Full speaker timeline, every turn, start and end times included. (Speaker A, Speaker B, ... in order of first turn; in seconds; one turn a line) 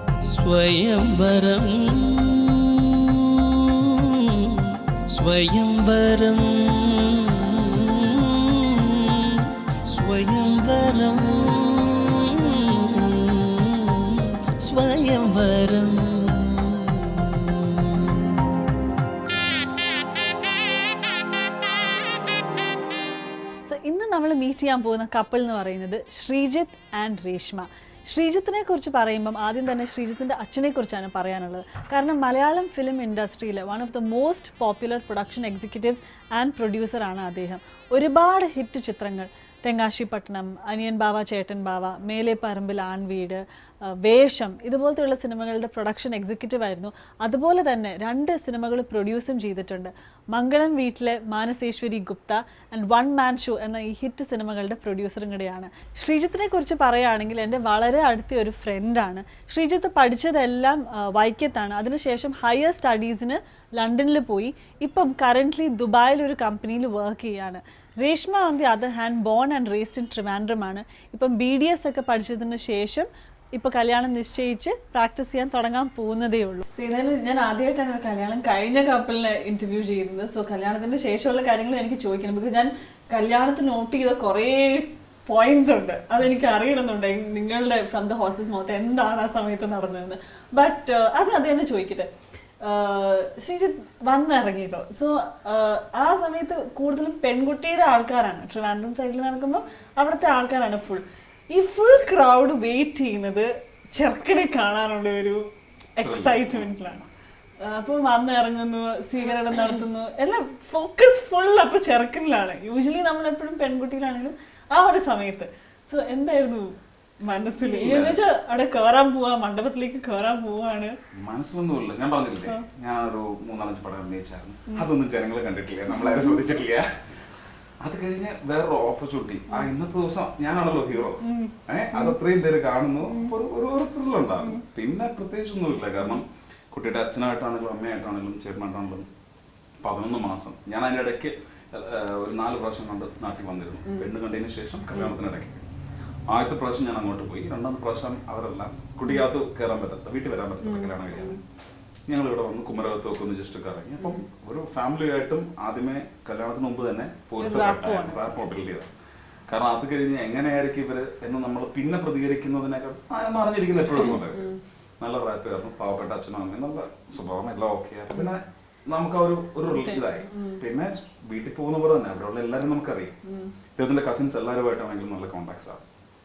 Speaker A: 0.3-18.6
Speaker B: 23.7-92.1
Speaker B: 92.6-105.4
Speaker B: 106.0-107.1
Speaker C: 106.0-106.7
Speaker B: 107.6-120.9
Speaker C: 117.6-118.2
Speaker C: 121.2-126.9
Speaker B: 125.9-126.6
Speaker C: 127.8-139.1
Speaker B: 131.2-132.2
Speaker B: 133.1-133.4
Speaker C: 139.8-145.7
Speaker B: 143.8-144.1
Speaker C: 146.3-151.4
Speaker B: 150.6-151.4
Speaker C: 152.1-158.9
Speaker B: 154.0-154.3
Speaker B: 157.4-158.3
Speaker C: 159.5-173.1
Speaker B: 164.1-164.6
Speaker B: 169.7-170.6
Speaker B: 173.2-173.5
Speaker C: 173.8-175.8